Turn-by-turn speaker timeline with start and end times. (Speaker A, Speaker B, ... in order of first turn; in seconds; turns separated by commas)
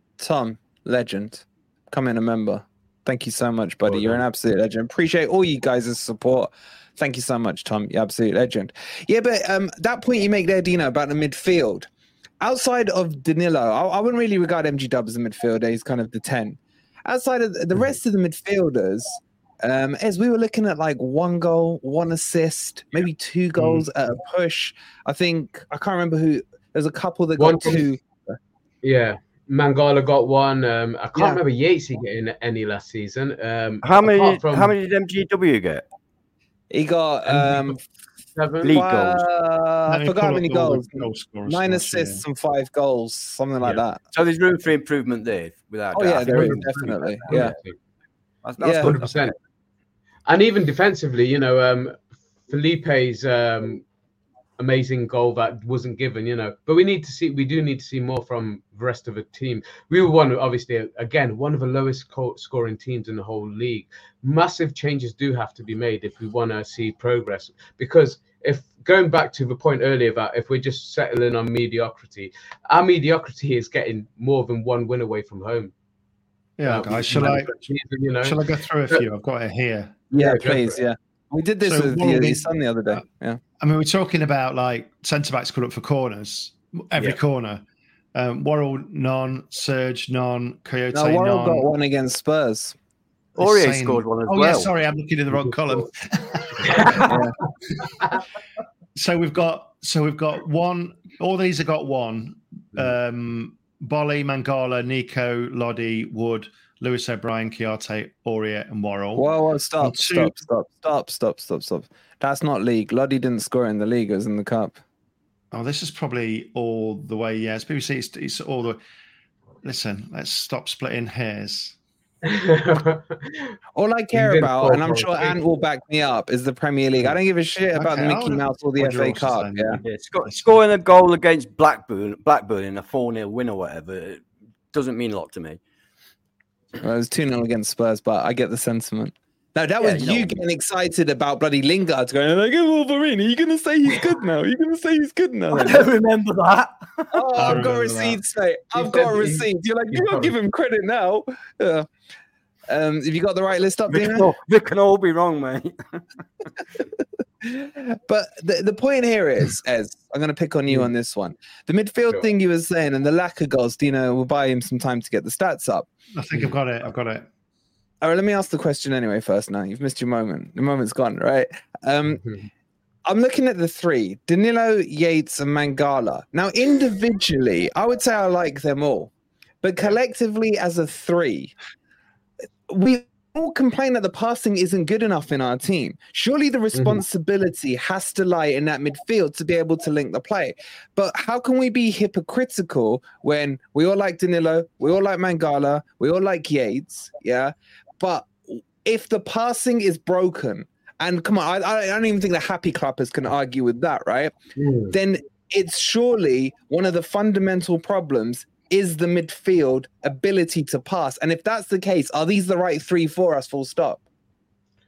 Speaker A: 0.2-11.9, Speaker B: 3.9-4.2, Speaker A: 12.4-28.4, Speaker B: 27.4-27.8, Speaker B: 28.8-34.7, Speaker A: 31.1-31.4, Speaker C: 33.8-35.8, Speaker A: 36.7-37.8, Speaker B: 37.4-37.7, Speaker B: 38.3-38.8, Speaker C: 38.6-39.2, Speaker A: 38.6-44.0, Speaker D: 39.9-42.2, Speaker C: 44.1-46.8, Speaker A: 45.9-47.5, Speaker B: 46.2-47.8, Speaker C: 47.3-47.5, Speaker C: 48.4-49.2, Speaker A: 48.6-48.9, Speaker B: 48.8-49.4, Speaker B: 50.3-53.8, Speaker B: 54.6-75.7, Speaker D: 76.6-80.1, Speaker B: 76.6-79.0, Speaker B: 80.1-80.8, Speaker A: 80.1-83.4, Speaker D: 81.6-83.0, Speaker D: 83.6-87.6, Speaker D: 88.1-91.7, Speaker A: 90.9-92.8, Speaker D: 93.4-97.1, Speaker C: 93.4-94.7, Speaker B: 96.6-97.2, Speaker C: 96.9-97.2, Speaker D: 99.0-109.3, Speaker A: 109.2-114.8, Speaker D: 109.8-110.3, Speaker D: 115.5-118.8, Speaker D: 119.6-121.7, Speaker B: 122.2-123.5, Speaker A: 123.7-129.8, Speaker B: 124.1-125.4, Speaker D: 127.7-130.4, Speaker C: 129.8-135.6, Speaker A: 136.8-145.9, Speaker C: 139.8-140.3, Speaker C: 145.5-147.2, Speaker A: 147.1-151.9, Speaker D: 147.3-148.2, Speaker B: 148.7-150.3, Speaker A: 152.7-154.3, Speaker C: 153.9-156.0, Speaker A: 157.4-165.9, Speaker D: 166.2-167.2, Speaker A: 168.0-172.2, Speaker A: 173.1-181.5, Speaker A: 182.7-204.3, Speaker B: 186.7-187.0, Speaker B: 204.6-204.9, Speaker A: 204.9-214.0